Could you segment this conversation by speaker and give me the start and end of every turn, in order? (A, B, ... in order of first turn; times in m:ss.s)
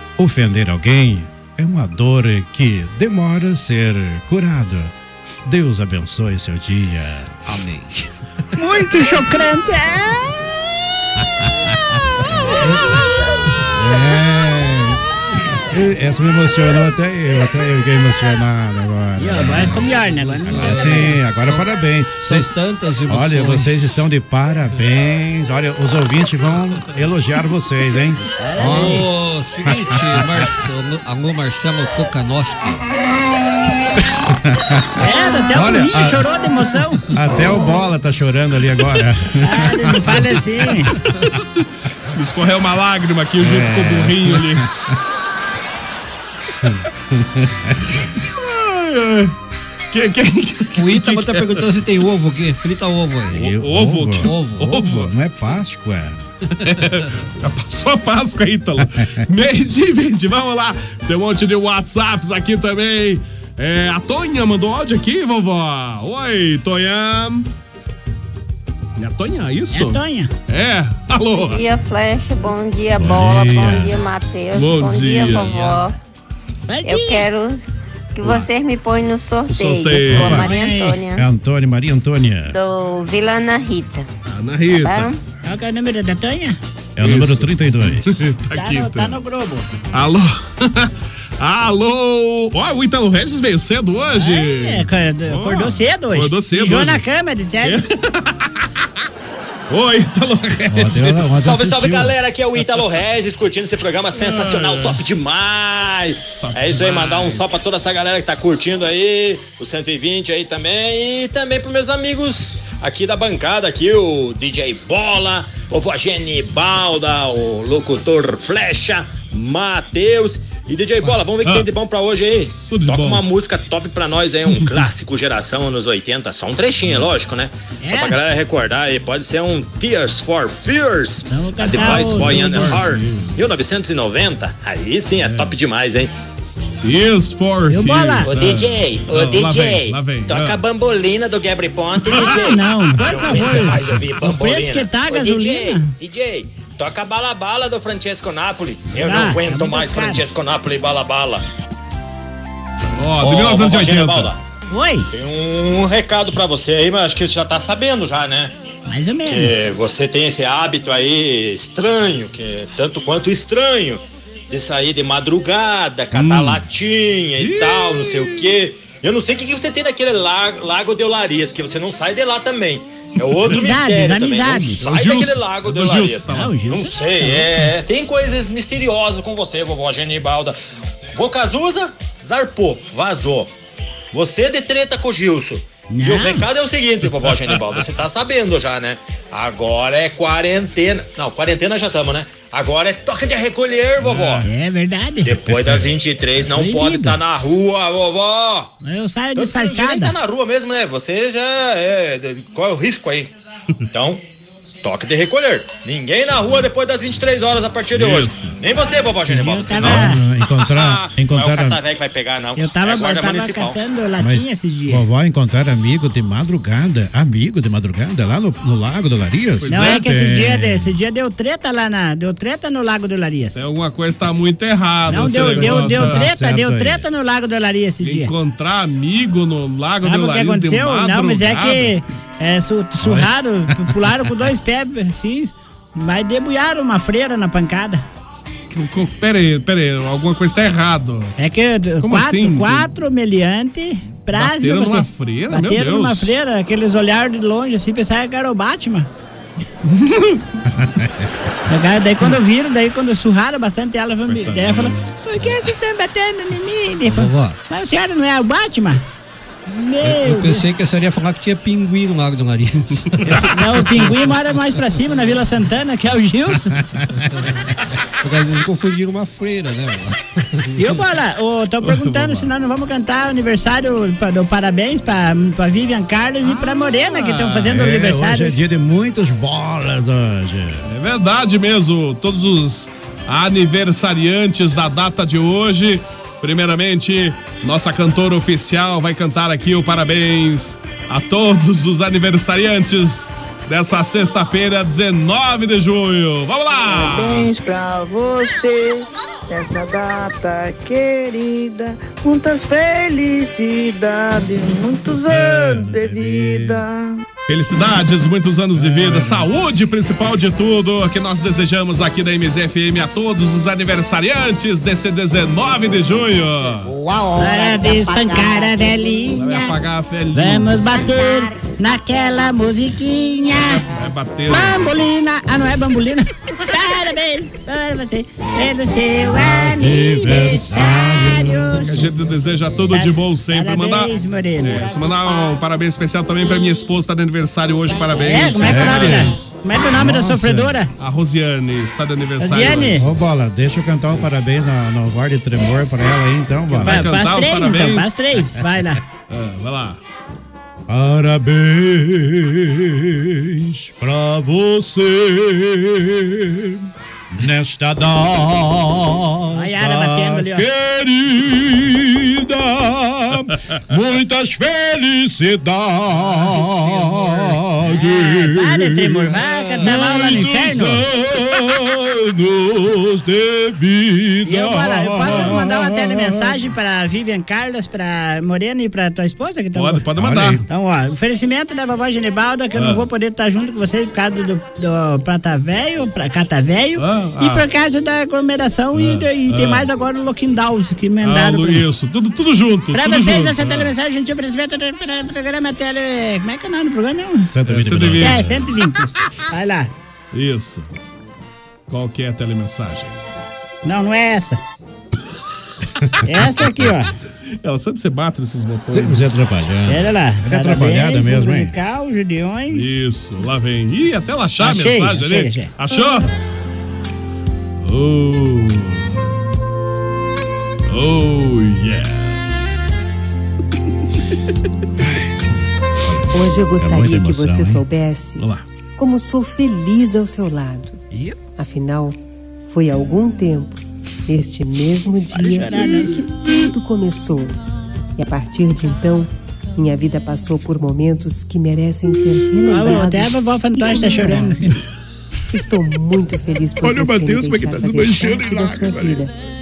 0:00.2-0:04.9 A
0:05.4-0:07.5 A
0:07.5-0:08.0 B
0:08.6-0:10.3 C
0:13.7-0:15.0 A
0:15.5-0:19.9 A
0:19.2-0:21.1 C
0:19.9-0:21.7 B
0:20.4-0:22.5 A
0:22.2-0:24.0 B
0:23.1-0:29.0 A
0:28.4-0:29.0 C
0:28.6-0:32.8 B
0:34.3-0:36.2 A
0:35.0-0:37.5 C
0:37.1-0:40.3 A
0:39.4-0:40.9 C
0:42.1-0:44.7 D
0:43.4-0:45.0 A
0:46.6-0:47.9 A
0:48.0-0:49.3 D
0:49.9-0:51.6 D
0:50.8-0:53.5 B
0:53.3-0:56.2 A
0:53.4-0:55.1 D
0:54.2-0:54.8 B
0:56.6-1:07.4 D
1:09.0-1:11.6 D
1:09.7-1:10.3 C
1:11.4-1:15.9 E
1:13.0-1:14.0 A
1:14.5-1:15.6 D
1:15.4-1:15.8 B
1:16.7-1:17.3 C
1:16.8-1:17.6 E
1:18.1-1:21.2 E
1:19.5-1:20.4 D
1:20.1-1:20.4 A
1:20.2-1:21.0 C
1:21.1-1:22.6 A
1:22.5-1:24.1 E
1:24.3-1:25.1 D
1:24.7-1:25.2 E
1:25.4-1:26.6 C
1:27.0-1:28.3 A
1:27.0-1:29.2 D
1:28.5-1:29.7 C
1:29.9-1:37.0 D
1:34.1-1:37.8 C
1:37.6-1:38.6 D
1:39.7-1:41.4 D
1:40.7-1:42.2 A
1:41.3-2:16.1 F
1:44.1-1:45.0 D
1:46.4-1:47.5 D
2:01.4-2:01.7 D
2:02.7-2:03.2 D
2:07.8-2:08.2 C
2:11.3-2:12.8 C
2:11.6-2:13.4 D
2:15.2-2:15.6 D
2:16.8-2:20.6 D
2:17.7-2:18.3 C
2:18.2-2:31.4 F
2:22.1-2:22.4 D
2:22.2-2:25.9 C
2:23.0-2:23.8 D
2:28.9-2:30.2 C
2:33.0-2:34.3 D
2:33.2-2:34.4 F
2:34.7-2:35.1 C
2:35.1-2:38.5 F
2:38.9-2:39.5 C
2:39.2-3:00.6 F
2:46.1-2:46.6 D
2:47.4-2:48.6 D
2:53.4-2:53.7 D
2:53.5-2:54.8 C
2:54.8-2:56.6 D
2:56.3-2:57.5 C
3:01.1-3:03.5 F
3:04.1-3:14.4 F
3:05.9-3:06.4 C
3:07.2-3:07.8 D
3:14.0-3:14.5 D
3:14.4-3:15.4 C
3:15.2-3:18.7 F
3:16.5-3:17.2 C
3:18.8-3:20.1 C
3:19.4-3:23.3 F
3:23.9-3:24.2 F
3:24.8-3:33.8 F
3:27.9-3:28.6 D
3:29.3-3:30.2 C
3:29.8-3:31.8 A
3:32.6-3:35.0 C
3:34.2-3:40.9 A
3:39.6-3:40.0 D
3:39.7-3:43.6 C
3:43.5-3:46.2 D
3:45.1-3:47.1 A
3:45.1-3:48.3 C
3:48.0-3:52.0 D
3:50.0-3:58.0 C
3:53.0-3:53.9 A
3:58.7-4:01.3 D
4:01.4-4:09.1 C
4:02.0-4:02.9 D
4:04.3-4:06.4 D
4:09.8-4:10.4 D
4:10.8-4:11.1 A
4:11.7-4:19.0 C
4:14.3-4:15.1 D
4:17.1-4:17.6 B
4:19.7-4:20.6 C
4:20.0-4:24.3 B
4:23.3-4:26.7 C
4:27.2-4:27.6 B
4:28.2-4:30.8 B
4:30.8-4:38.6 C
4:31.8-4:32.5 D
4:36.5-4:37.8 D
4:37.6-4:40.9 A
4:40.9-4:57.5 D
4:56.9-5:07.1 G
5:05.1-5:06.8 A
5:07.5-5:16.9 D
5:08.7-5:09.5 A
5:17.1-5:19.4 E
5:17.4-5:19.6 C
5:19.3-5:21.1 D
5:20.3-5:23.8 C
5:23.6-5:24.9 D
5:24.5-5:32.1 C
5:29.3-5:32.1 A
5:31.8-5:39.5 D
5:32.9-5:35.0 C
5:38.2-5:40.9 C
5:38.6-5:39.3 A
5:39.9-5:40.8 A
5:41.0-5:43.1 D
5:42.4-5:43.1 C
5:42.9-5:47.0 A
5:46.7-5:48.3 D
5:46.8-5:49.0 C
5:49.3-5:50.0 D
5:50.9-6:16.5 A
5:59.5-6:00.7 C
6:07.8-6:11.0 C
6:09.4-6:10.2 B
6:14.4-6:20.0 C
6:15.2-6:15.6 D
6:19.7-6:20.6 D
6:20.2-6:20.6 A
6:20.7-6:31.8 C
6:22.7-6:23.1 D
6:27.0-6:27.6 D
6:28.9-6:29.9 D
6:31.2-6:33.9 D
6:32.9-6:37.5 C
6:37.5-6:38.7 A
6:37.6-6:38.5 D
6:38.2-6:39.9 C
6:40.3-6:40.9 D
6:41.9-6:43.2 D
6:43.8-6:44.6 C
6:46.2-6:47.1 C
6:47.6-6:49.3 D
6:48.8-6:51.8 A
6:49.9-6:53.0 C
6:52.7-6:56.3 D
6:54.6-6:55.7 C
6:57.8-6:59.2 D
7:00.9-7:02.6 D
7:05.0-7:05.3 A
7:06.0-7:07.8 A
7:06.3-7:08.4 H
7:09.0-7:11.0 H
7:11.1-7:11.4 C
7:11.6-7:12.2 H
7:12.7-7:17.6 H
7:15.3-7:16.2 C
7:18.2-7:24.7 H
7:22.7-7:24.8 C
7:25.5-7:29.3 H
7:26.8-7:29.2 A